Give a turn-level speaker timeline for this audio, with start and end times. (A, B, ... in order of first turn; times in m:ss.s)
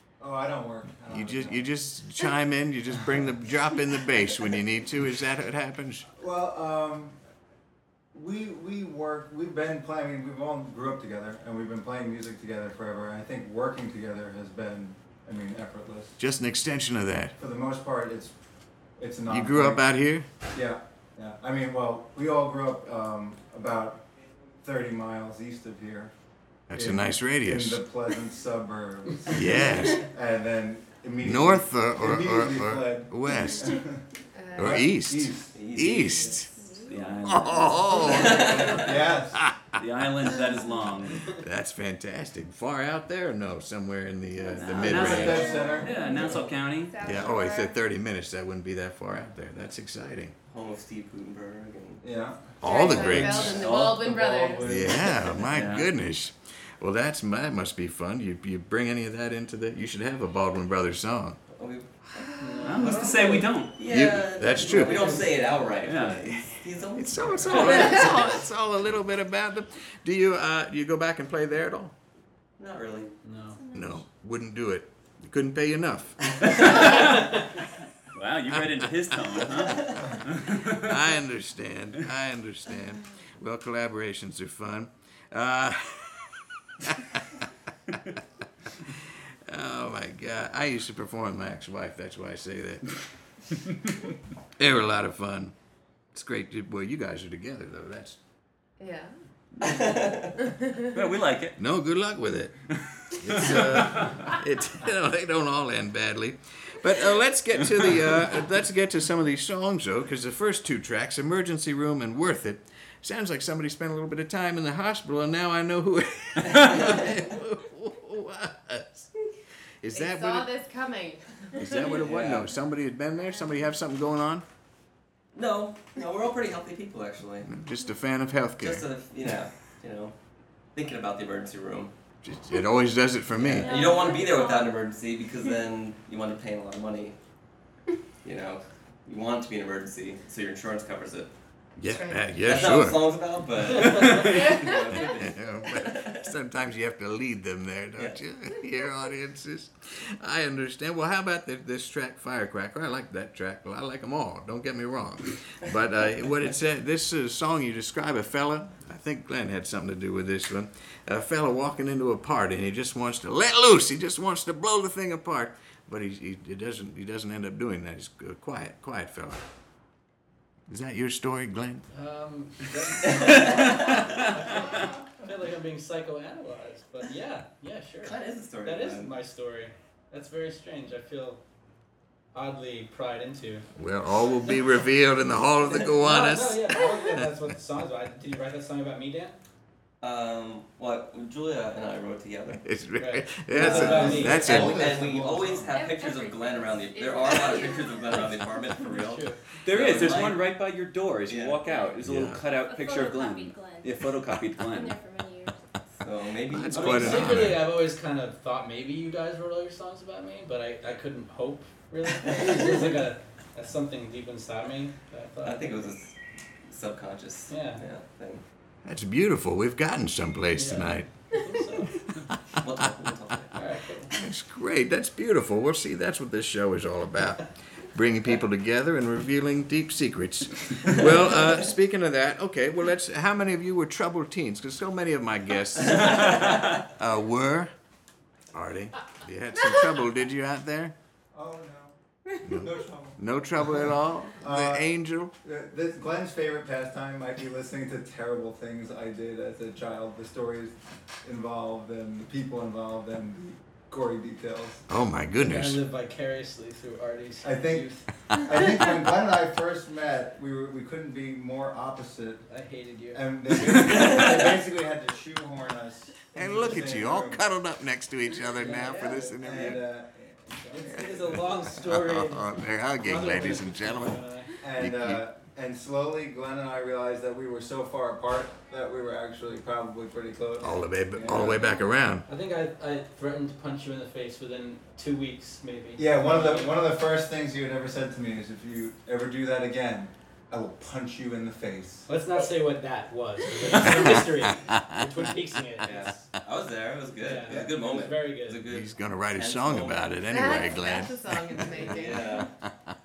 0:00.2-0:01.7 A
0:01.1-0:06.0 B
0:06.1-0:07.2 A
0:08.1-0:16.2 A
0:16.2-0:17.4 B
0:17.4-0:18.3 A
0:19.0-0:19.8 A
0:19.3-0:20.3 B
0:20.5-0:24.0 A
0:24.6-0:26.1 A
0:26.7-0:27.8 B
0:26.7-0:34.0 A
0:29.3-0:30.0 B
0:31.2-0:33.8 B
0:34.3-0:34.8 C
0:34.6-0:36.4 A
0:34.6-0:36.5 B
0:35.5-0:36.4 D
0:36.5-0:38.8 E
0:36.9-0:38.2 F
0:37.2-0:39.8 B
0:38.0-0:38.8 D
0:38.7-0:39.5 A
0:39.8-0:41.3 F
0:41.4-0:45.5 B
0:44.5-0:47.0 F
0:44.8-0:46.1 A
0:45.0-0:46.6 D
0:45.4-0:46.3 E
0:45.5-0:47.8 C
0:47.0-0:50.3 B
0:50.5-0:52.0 D
0:52.0-0:55.4 A
0:52.6-0:53.7 B
0:52.6-0:54.9 C
0:53.5-0:54.0 F
0:54.6-1:01.4 B
0:55.4-0:55.9 F
1:01.5-1:08.3 D
1:02.4-1:03.5 G
1:02.6-1:03.8 F
1:03.9-1:05.2 B
1:04.6-1:05.3 G
1:05.8-1:06.7 F
1:07.0-1:11.9 B
1:12.6-1:13.1 D
1:13.2-1:13.6 G
1:13.4-1:14.0 E
1:13.7-1:16.8 B
1:16.3-1:16.9 D
1:16.7-1:17.1 F
1:18.1-1:21.0 F
1:18.5-1:19.7 B
1:19.7-1:20.1 D
1:20.5-1:27.5 B
1:28.8-1:33.0 B
1:34.6-1:35.5 B
1:36.1-1:38.2 B
1:38.8-1:39.1 C
1:39.6-1:40.4 D
1:39.6-1:39.9 F
1:40.4-1:41.0 C
1:40.9-1:41.6 F
1:41.6-1:42.5 B
1:42.7-1:44.2 F
1:43.1-1:59.1 B
1:59.8-2:00.5 B
1:59.9-2:02.0 C
2:01.5-2:04.4 B
2:01.9-2:02.5 D
2:05.3-2:07.5 D
2:07.4-2:08.9 B
2:08.6-2:10.1 D
2:10.7-2:11.9 D
2:12.2-2:13.8 B
2:13.4-2:17.2 D
2:13.4-2:14.8 E
2:18.2-2:21.3 D
2:21.8-2:23.0 B
2:21.9-2:22.3 C
2:22.4-2:26.3 D
2:23.8-2:24.2 G
2:23.9-2:24.6 F
2:24.3-2:24.8 C
2:25.0-2:49.4 B
2:50.7-2:51.8 B
2:51.9-3:01.4 G
2:53.1-2:53.7 D
2:53.6-2:54.2 F
2:58.0-2:59.1 D
3:02.3-3:03.7 G
3:03.8-3:07.4 B
3:05.7-3:09.4 G
3:10.0-3:12.6 D
3:12.6-3:14.9 B
3:13.0-3:14.6 G
3:13.5-3:20.5 D
3:13.6-3:15.7 A
3:15.7-3:18.3 E
3:18.8-3:19.4 G
3:19.6-3:25.0 F
3:21.3-3:21.6 D
3:21.6-3:23.9 E
3:22.0-3:22.4 B
3:24.6-3:25.6 E
3:26.0-3:27.4 D
3:26.5-3:27.6 B
3:26.7-3:35.8 G
3:35.4-3:36.1 D
3:36.7-3:38.4 D
3:37.5-3:37.8 G
3:38.8-3:41.1 B
3:40.5-3:41.9 G
3:42.6-3:43.5 D
3:43.5-3:44.1 G
3:44.1-3:57.7 B
3:56.0-3:56.4 D
3:58.5-4:00.9 B
4:01.3-4:03.2 A
4:02.4-4:05.3 B
4:04.4-4:14.8 A
4:14.9-4:15.8 B
4:15.4-4:18.0 G
4:17.4-4:22.5 A
4:22.5-4:23.7 G
4:23.1-4:27.4 A
4:24.0-4:24.4 D
4:26.3-4:29.8 B
4:28.6-4:29.8 G
4:29.4-4:31.4 A
4:30.6-4:34.6 G
4:31.3-4:34.2 B
4:34.6-4:41.8 A
4:34.8-4:35.2 B
4:40.6-4:42.3 B
4:42.3-4:46.9 G
4:46.0-4:52.1 A
4:52.1-4:56.3 G
4:53.9-4:55.2 B
4:55.8-5:00.6 D
4:57.2-4:58.6 G
4:58.7-5:01.9 B
5:00.3-5:02.5 C
5:01.7-5:02.5 D